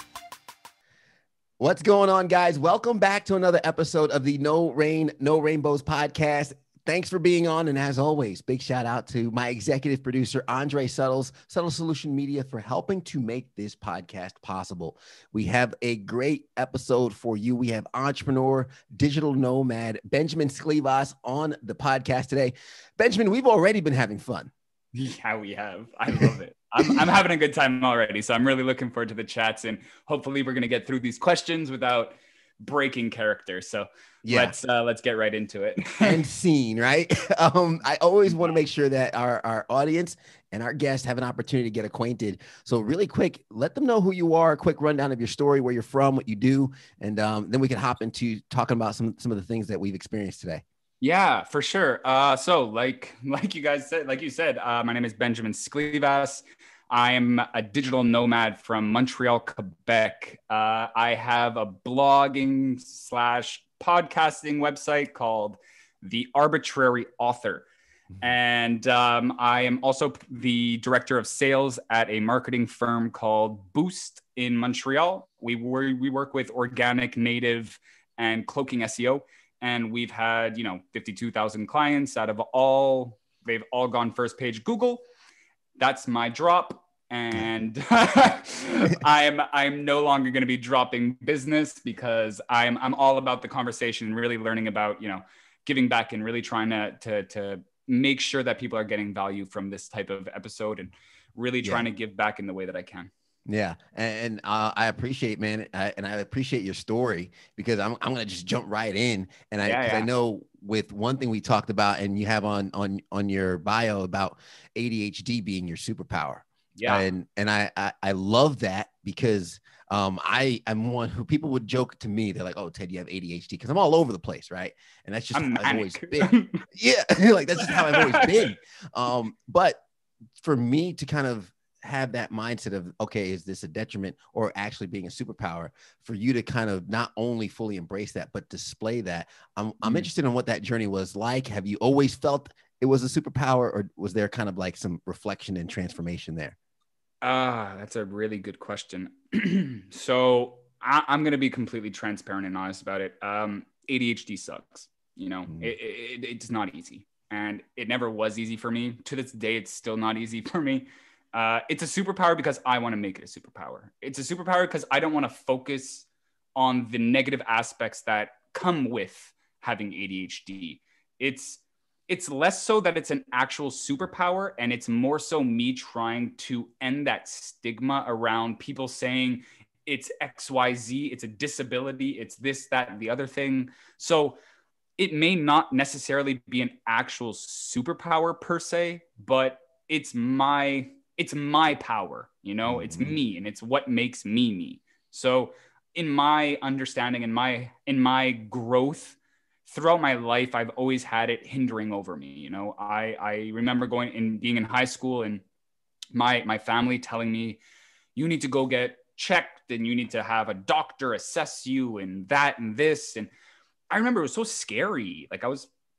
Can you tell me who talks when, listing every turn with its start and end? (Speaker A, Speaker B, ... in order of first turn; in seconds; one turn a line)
Speaker A: 1.6-24.5
Speaker B: 24.9-36.2
Speaker A: 34.2-34.5
Speaker A: 36.0-50.6
Speaker B: 51.0-67.7
Speaker B: 68.2-85.0
Speaker B: 85.8-103.1
Speaker A: 103.5-129.8
Speaker B: 109.6-110.1
Speaker B: 116.8-117.0
Speaker B: 125.3-126.6
Speaker B: 127.6-128.5
Speaker A: 130.4-146.6
Speaker B: 147.2-184.4
Speaker B: 185.0-205.4
Speaker A: 192.7-193.2
Speaker B: 206.1-207.6
Speaker B: 208.1-213.3
Speaker B: 213.9-215.7